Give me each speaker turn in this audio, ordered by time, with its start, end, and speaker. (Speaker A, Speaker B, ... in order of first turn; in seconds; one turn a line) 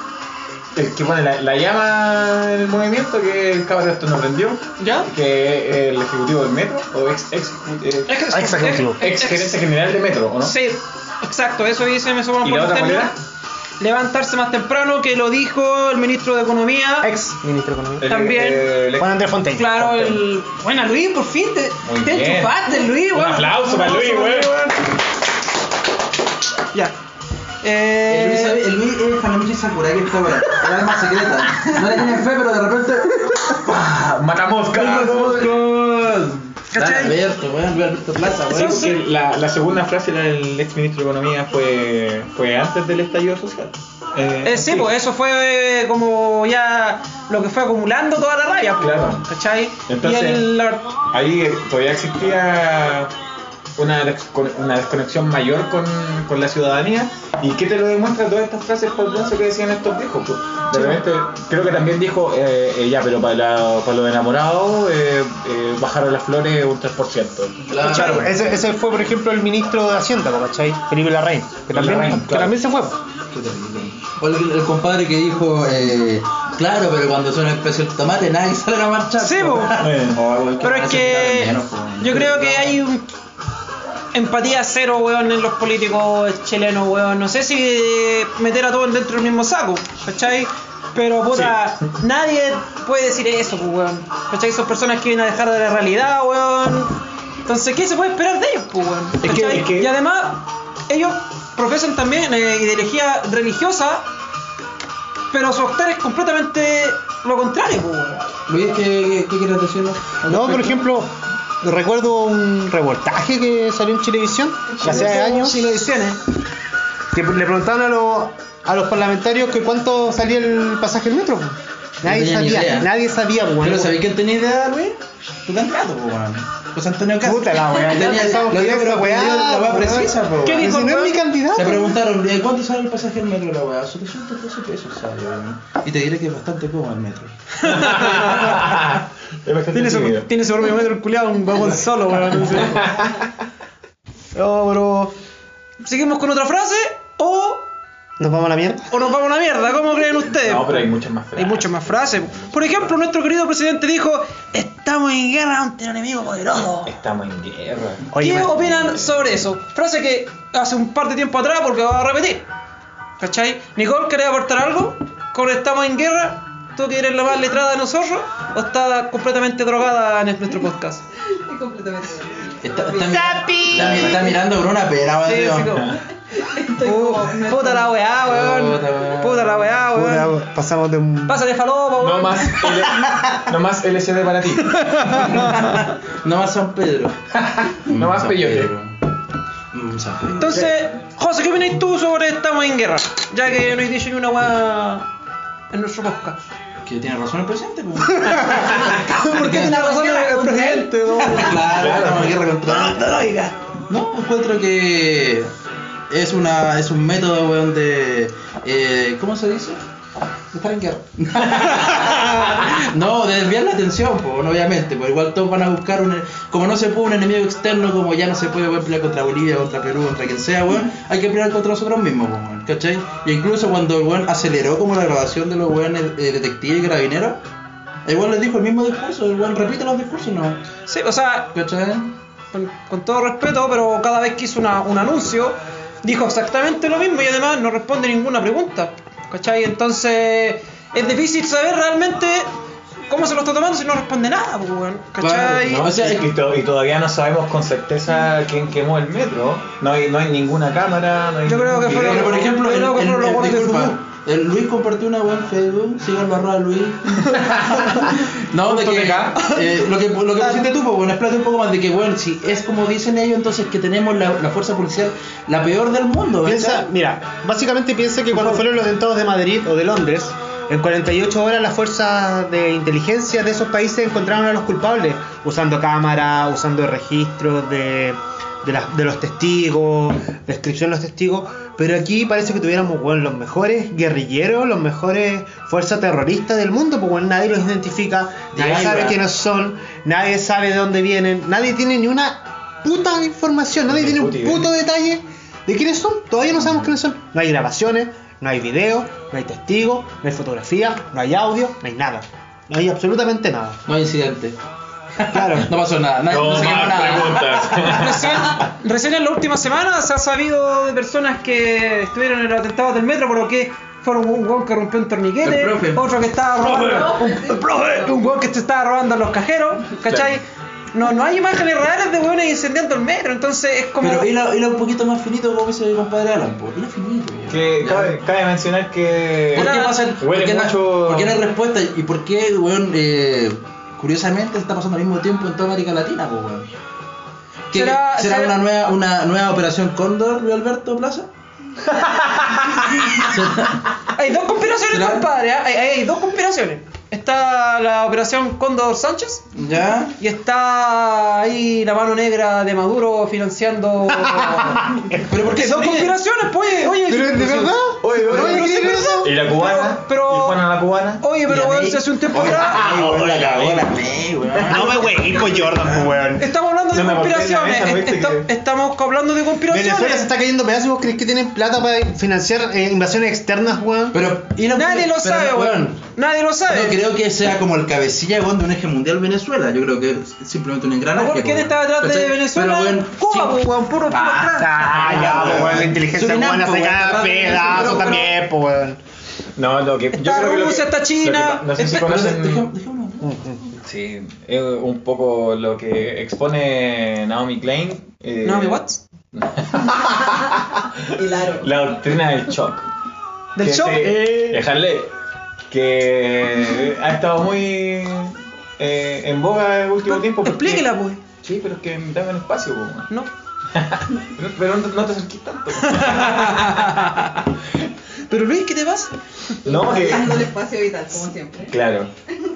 Speaker A: 0.8-8.2
Speaker B: 4.8-5.1
Speaker B: 8.1-9.6
Speaker C: 8.3-9.0
Speaker A: 9.0-10.5
Speaker B: 10.4-13.2
Speaker A: 12.4-13.1
Speaker B: 13.8-17.1
Speaker C: 17.0-18.1
Speaker A: 18.0-20.2
Speaker B: 18.0-18.8
Speaker C: 19.0-19.7
Speaker B: 19.5-24.9
Speaker A: 21.8-24.7
Speaker B: 27.6-28.6
Speaker D: 28.1-33.6
Speaker A: 33.6-35.6
Speaker D: 34.7-38.9
Speaker B: 36.7-37.2
Speaker B: 38.5-39.0
Speaker A: 38.5-44.9
Speaker B: 44.4-50.9
Speaker A: 48.8-49.2
Speaker A: 49.9-50.5
Speaker A: 51.1-53.1
Speaker A: 53.8-68.3
Speaker D: 67.7-68.3
Speaker C: 67.8-73.0
Speaker A: 71.7-72.5
Speaker D: 73.3-82.8
Speaker B: 79.2-79.8
Speaker A: 79.8-80.2
Speaker B: 80.6-83.1
Speaker B: 84.1-104.1
Speaker A: 99.2-99.9
Speaker D: 99.3-99.6
Speaker B: 105.3-108.3
Speaker D: 108.5-110.8
Speaker C: 110.3-115.8
Speaker B: 114.8-116.2
Speaker C: 117.1-124.0
Speaker D: 122.0-122.9
Speaker D: 123.6-130.9
Speaker C: 127.2-132.0
Speaker B: 130.4-131.2
Speaker D: 131.5-137.3
Speaker B: 137.6-138.5
Speaker A: 137.7-140.3
Speaker D: 138.0-138.6
Speaker B: 139.7-142.9
Speaker A: 142.5-143.3
Speaker C: 144.4-145.1
Speaker B: 145.8-147.7
Speaker C: 148.2-148.9
Speaker B: 148.9-156.9
Speaker A: 150.4-152.9
Speaker A: 156.8-159.2
Speaker C: 158.1-158.5
Speaker B: 158.2-162.5
Speaker B: 163.2-171.0
Speaker E: 171.3-173.2
Speaker D: 172.6-175.8
Speaker B: 173.1-174.3
Speaker A: 173.7-174.4
Speaker B: 175.2-176.0
Speaker E: 176.4-178.0
Speaker B: 176.8-180.3
Speaker D: 178.2-179.8
Speaker C: 179.9-181.4
Speaker B: 181.3-182.9
Speaker A: 182.0-185.2
Speaker B: 184.7-185.9
Speaker D: 185.4-187.2
Speaker A: 187.3-188.7
Speaker D: 187.9-189.0
Speaker D: 189.7-190.6
Speaker B: 190.4-195.1
Speaker A: 190.5-190.8
Speaker B: 195.7-196.4
Speaker D: 196.8-203.2
Speaker B: 198.2-201.7
Speaker C: 199.3-199.6
Speaker C: 200.6-201.2
Speaker A: 201.6-202.4
Speaker D: 203.9-205.5
Speaker D: 206.1-209.8
Speaker D: 210.5-227.4
Speaker A: 211.7-212.0
Speaker D: 228.1-230.6
Speaker B: 230.9-231.5
Speaker D: 231.5-232.2
Speaker B: 232.5-242.5
Speaker B: 243.1-245.9
Speaker D: 245.2-246.3
Speaker A: 245.7-252.5
Speaker B: 251.4-254.0
Speaker D: 252.0-266.9
Speaker A: 258.6-259.4
Speaker B: 259.3-259.6
Speaker C: 266.4-303.8
Speaker D: 268.3-268.6
Speaker D: 288.5-289.2
Speaker A: 293.9-294.7
Speaker D: 303.9-304.6
Speaker D: 305.2-308.1
Speaker C: 305.3-305.7
Speaker A: 306.3-308.7
Speaker B: 307.9-320.4
Speaker D: 315.4-316.1
Speaker E: 316.9-317.6
Speaker A: 320.1-320.4
Speaker B: 320.9-324.3
Speaker D: 324.0-328.2
Speaker A: 327.5-331.4
Speaker D: 329.5-336.7
Speaker B: 329.6-330.0
Speaker D: 337.7-341.3
Speaker B: 337.7-338.6
Speaker A: 341.9-342.9
Speaker D: 343.2-343.9
Speaker B: 344.1-349.5
Speaker D: 344.9-345.3
Speaker D: 349.6-350.1
Speaker B: 350.2-360.6
Speaker C: 354.6-355.2
Speaker D: 355.3-356.1
Speaker C: 356.8-359.4
Speaker A: 358.0-361.2
Speaker B: 361.2-362.8
Speaker D: 361.5-366.0
Speaker A: 362.6-363.9
Speaker C: 364.6-366.5
Speaker B: 366.4-370.3
Speaker A: 366.9-368.5
Speaker C: 369.7-374.2
Speaker D: 374.1-376.0
Speaker B: 374.7-377.0
Speaker D: 376.7-388.3
Speaker B: 381.1-385.4
Speaker C: 384.6-389.0
Speaker A: 389.6-392.7
Speaker B: 390.1-392.1
Speaker D: 391.9-393.3
Speaker C: 393.2-393.8
Speaker A: 393.8-398.8
Speaker B: 398.4-399.0
Speaker A: 399.3-402.9
Speaker E: 401.1-401.7
Speaker B: 403.6-404.6
Speaker A: 403.6-405.1
Speaker A: 405.7-410.9
Speaker B: 410.1-411.2
Speaker A: 411.4-413.1
Speaker A: 413.7-417.1
Speaker B: 415.8-417.4
Speaker B: 418.3-419.1
Speaker A: 419.6-420.5
Speaker E: 419.6-421.8
Speaker A: 421.7-422.1